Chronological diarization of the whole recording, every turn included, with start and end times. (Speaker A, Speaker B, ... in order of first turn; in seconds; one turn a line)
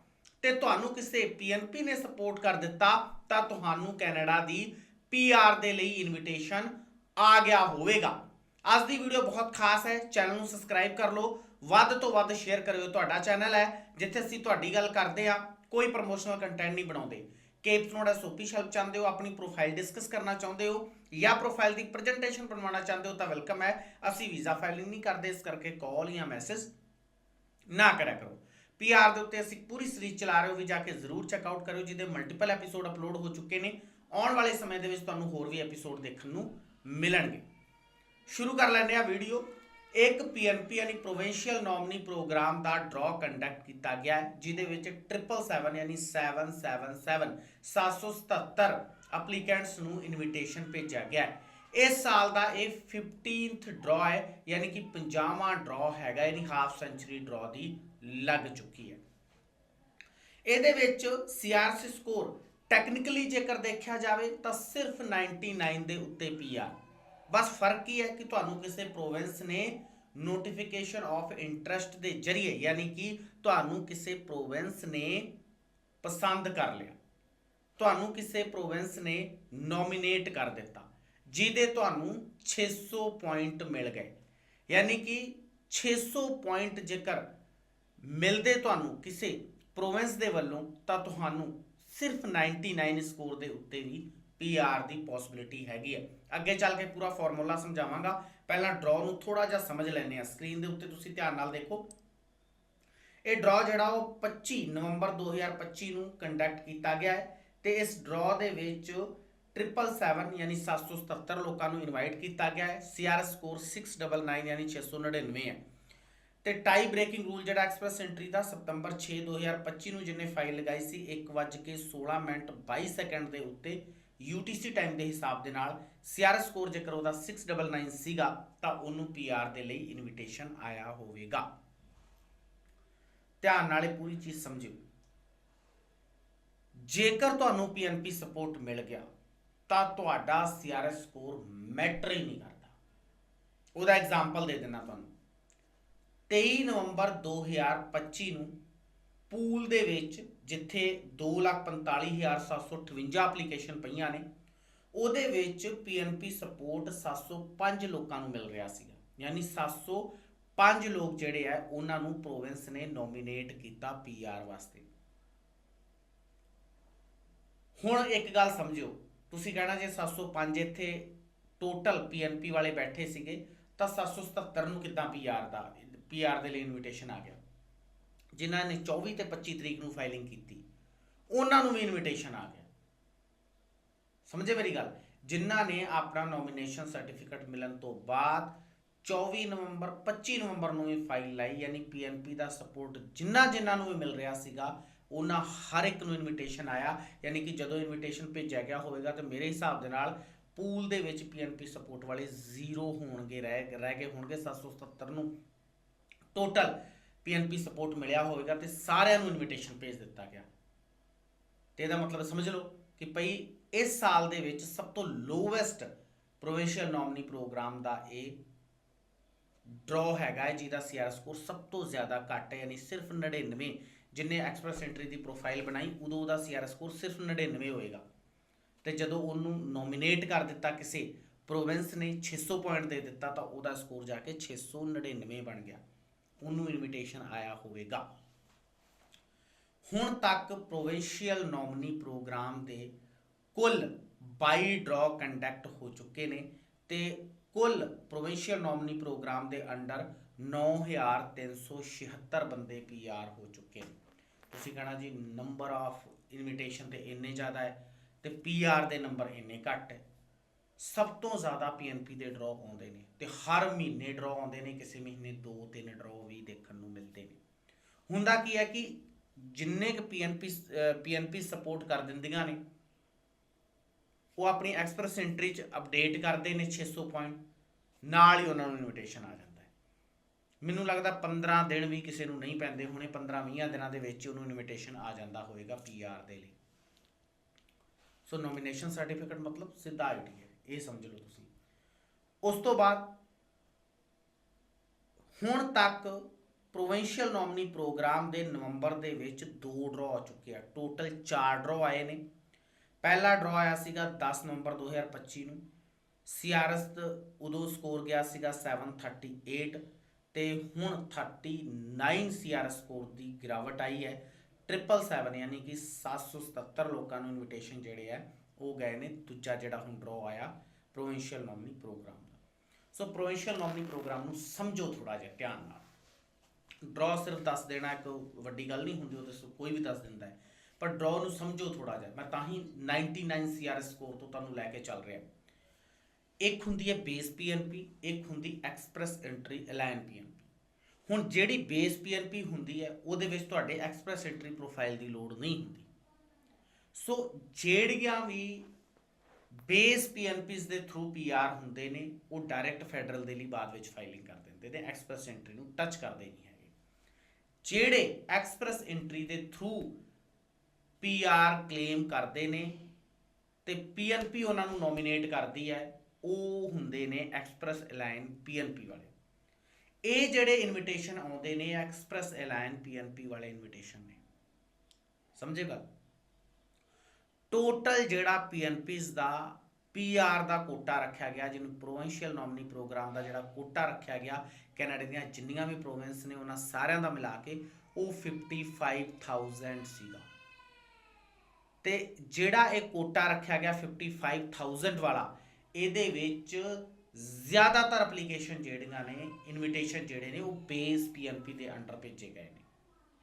Speaker A: 0.4-26.7
Speaker A: 27.7-37.4
Speaker A: 38.3-59.0
Speaker A: 60.5-66.7
Speaker A: 67.3-75.3
Speaker A: 76.0-77.0
Speaker A: 77.8-84.1
Speaker A: 84.7-87.2
Speaker A: 88.0-101.9
Speaker A: 103.2-115.6
Speaker A: 116.4-131.5
Speaker A: 133.4-134.8
Speaker A: 136.8-139.1
Speaker A: 139.7-142.7
Speaker A: 143.8-145.1
Speaker A: 146.3-148.5
Speaker A: 149.3-154.2
Speaker A: 154.9-164.9
Speaker A: 167.8-171.1
Speaker A: 171.6-177.4
Speaker A: 178.3-180.6
Speaker A: 181.3-182.7
Speaker A: 184.3-205.3
Speaker A: 206.3-210.5
Speaker A: 211.8-215.9
Speaker A: 216.4-218.4
Speaker A: 219.7-228.0
Speaker A: 228.8-235.8
Speaker A: 236.4-238.1
Speaker A: 239.9-242.9
Speaker A: 243.6-253.9
Speaker A: 254.5-260.0
Speaker A: 260.8-267.4
Speaker A: 268.1-272.6
Speaker A: 274.4-277.4
Speaker A: 278.1-279.7
Speaker A: 280.6-286.6
Speaker A: 288.3-291.5
Speaker A: 292.4-293.1
Speaker A: 295.4-302.2
Speaker A: 303.0-305.6
Speaker A: 306.3-309.8
Speaker A: 310.3-322.4
Speaker A: 322.9-325.8
Speaker A: 326.9-335.2
Speaker A: 336.4-340.3
Speaker A: 341.1-345.9
Speaker A: 346.9-348.7
Speaker A: 349.7-356.7
Speaker A: 357.6-359.9
Speaker A: 361.0-362.8
Speaker A: 363.6-369.1
Speaker A: 370.1-374.2
Speaker A: 375.4-375.8
Speaker A: 377.5-390.3
Speaker A: 391.8-402.6